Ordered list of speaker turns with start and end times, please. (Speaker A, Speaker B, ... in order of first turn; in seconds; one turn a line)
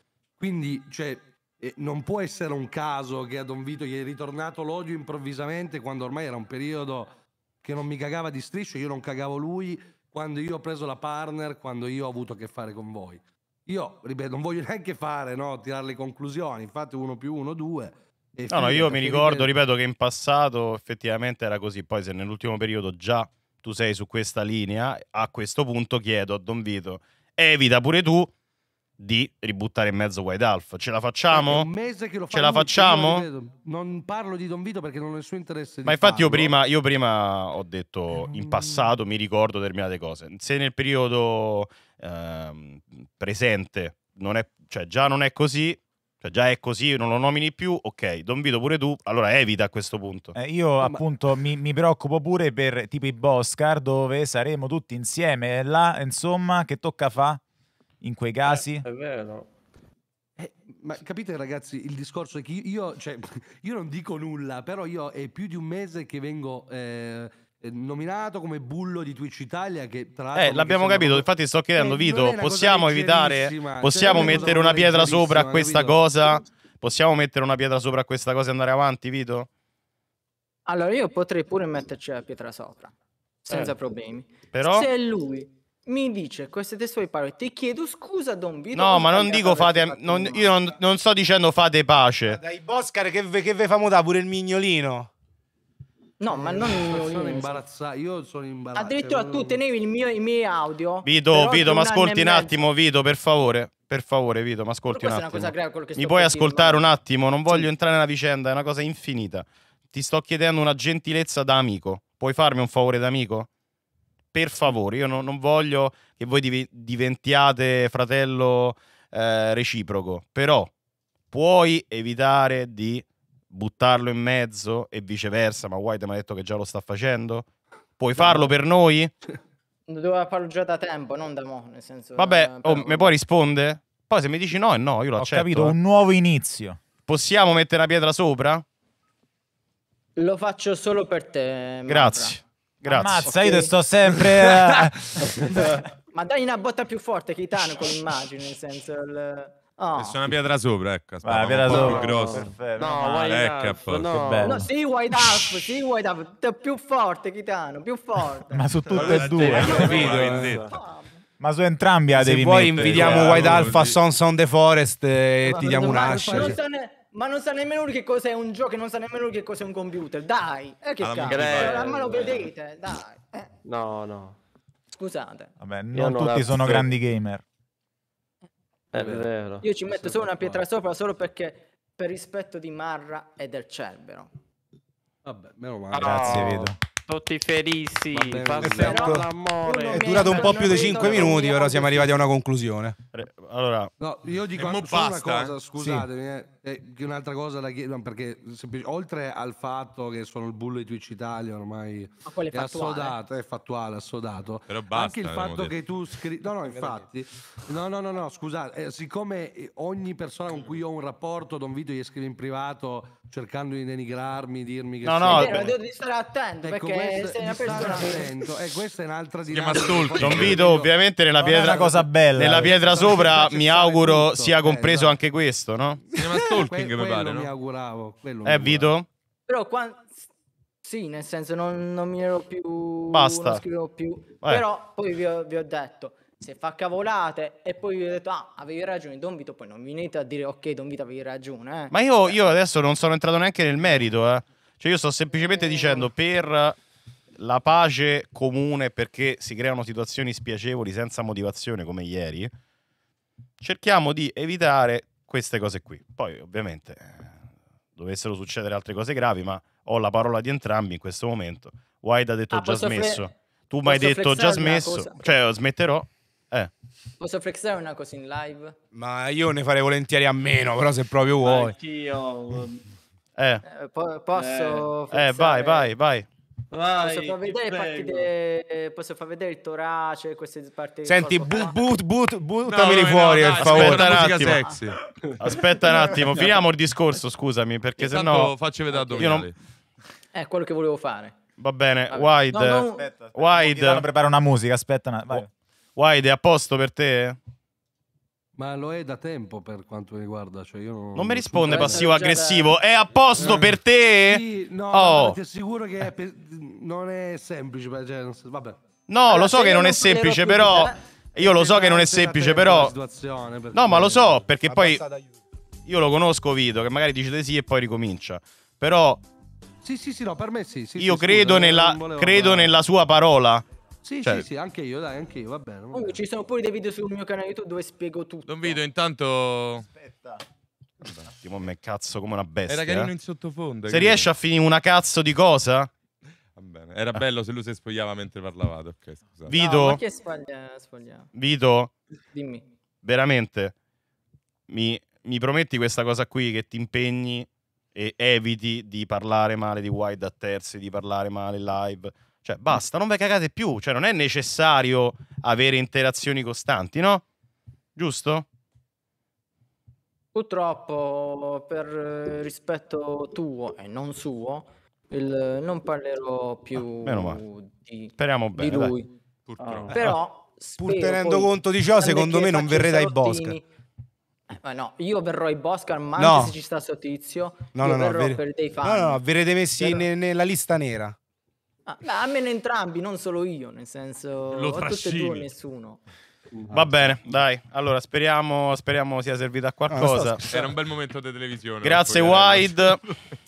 Speaker A: 0.4-19.6
Speaker B: 18.5-28.3
Speaker B: 29.0-31.7
Speaker A: 31.3-36.6
Speaker B: 32.3-33.3
Speaker B: 35.9-50.4
Speaker A: 38.1-38.9
Speaker C: 50.4-57.4
Speaker C: 58.0-58.9
Speaker D: 58.5-59.5
Speaker A: 60.4-76.1
Speaker B: 70.3-79.5
Speaker E: 74.1-74.4
Speaker E: 80.7-82.9
Speaker E: 83.5-90.5
Speaker B: 84.5-84.9
Speaker B: 88.7-92.4
Speaker F: 92.3-95.1
Speaker E: 96.2-97.6
Speaker A: 96.3-99.6
Speaker E: 98.8-102.6
Speaker B: 101.0-113.5
Speaker E: 104.9-106.9
Speaker B: 114.3-120.7
Speaker B: 121.3-127.5
Speaker B: 128.0-129.1
Speaker E: 129.9-133.1
Speaker B: 132.2-135.8
Speaker C: 135.2-136.8
Speaker B: 137.1-138.6
Speaker E: 140.2-142.4
Speaker B: 141.9-143.3
Speaker C: 142.8-145.1
Speaker E: 143.1-143.7
Speaker E: 146.1-150.3
Speaker G: 150.0-152.5
Speaker C: 151.2-153.4
Speaker D: 151.7-154.7
Speaker G: 153.2-154.1
Speaker C: 154.1-154.7
Speaker E: 154.4-158.7
Speaker C: 158.5-160.3
Speaker G: 158.9-160.8
Speaker D: 159.1-160.8
Speaker F: 159.9-160.6
Speaker E: 160.7-161.1
Speaker C: 161.4-163.5
Speaker F: 162.2-166.6
Speaker G: 162.7-164.0
Speaker E: 165.5-173.5
Speaker A: 165.5-166.6
Speaker G: 171.0-172.5
Speaker D: 171.3-172.5
Speaker D: 173.6-174.4
Speaker E: 174.9-175.5
Speaker C: 175.6-177.4
Speaker D: 175.9-176.9
Speaker D: 178.9-179.7
Speaker A: 179.0-179.3
Speaker E: 179.6-184.3
Speaker A: 179.9-180.6
Speaker A: 185.2-186.7
Speaker D: 185.9-191.4
Speaker C: 186.0-186.8
Speaker A: 188.1-189.2
Speaker F: 188.4-193.0
Speaker E: 188.9-189.3
Speaker E: 189.8-192.2
Speaker B: 193.1-193.9
Speaker A: 194.0-215.7
Speaker G: 194.5-195.6
Speaker E: 202.3-203.2
Speaker G: 204.7-205.8
Speaker F: 206.8-207.0
Speaker B: 215.0-215.7
Speaker E: 215.3-218.5
Speaker A: 216.6-225.2
Speaker G: 219.5-220.6
Speaker B: 220.1-226.0
Speaker C: 221.4-222.8
Speaker A: 226.1-228.9
Speaker G: 226.2-227.5
Speaker B: 228.4-229.1
Speaker E: 229.5-230.3
Speaker E: 230.8-242.3
Speaker B: 233.1-233.6
Speaker B: 241.9-246.8
Speaker E: 245.4-246.1
Speaker B: 247.4-252.5
Speaker B: 253.6-257.4
Speaker B: 258.0-266.7
Speaker E: 262.5-263.3
Speaker E: 263.8-265.2
Speaker E: 267.2-268.8
Speaker F: 268.9-271.8
Speaker D: 271.4-272.8
Speaker B: 273.4-273.6
Speaker E: 273.6-275.9
Speaker D: 274.4-274.8
Speaker B: 275.1-276.3
Speaker D: 276.7-278.3
Speaker E: 276.9-281.9
Speaker F: 281.1-284.4
Speaker G: 282.6-285.0
Speaker B: 283.6-284.6
Speaker B: 285.4-289.5
Speaker G: 288.0-289.6
Speaker E: 290.3-291.4
Speaker B: 291.6-294.1
Speaker E: 292.1-293.1
Speaker C: 293.0-295.5
Speaker B: 295.3-297.4
Speaker A: 298.6-302.1
Speaker B: 301.1-305.4
Speaker E: 301.6-302.8
Speaker A: 303.3-308.8
Speaker B: 309.1-313.0
Speaker E: 309.3-311.0
Speaker A: 311.4-314.5
Speaker B: 313.7-315.0
Speaker F: 314.6-315.3
Speaker B: 315.9-319.2
Speaker A: 319.8-322.8
Speaker B: 321.0-323.6
Speaker A: 324.0-326.2
Speaker E: 325.9-328.8
Speaker G: 328.5-329.9
Speaker B: 331.2-333.1
Speaker G: 332.7-334.3
Speaker B: 333.9-335.9
Speaker G: 336.6-339.6
Speaker B: 339.5-340.0
Speaker E: 339.5-341.3
Speaker B: 341.4-341.9
Speaker E: 342.3-342.7
Speaker B: 343.0-343.7
Speaker B: 344.7-357.2
Speaker B: 358.0-358.5
Speaker E: 360.3-369.1
Speaker B: 367.0-367.4
Speaker B: 368.2-369.0
Speaker G: 369.5-370.0
Speaker D: 369.6-370.0
Speaker E: 369.9-373.6
Speaker F: 370.8-373.6
Speaker E: 374.5-379.2
Speaker F: 376.2-376.6
Speaker F: 377.7-381.2
Speaker E: 381.9-386.0
Speaker G: 384.5-385.5
Speaker B: 386.7-390.4
Speaker F: 389.9-390.7
Speaker G: 390.5-393.3
Speaker B: 391.8-393.0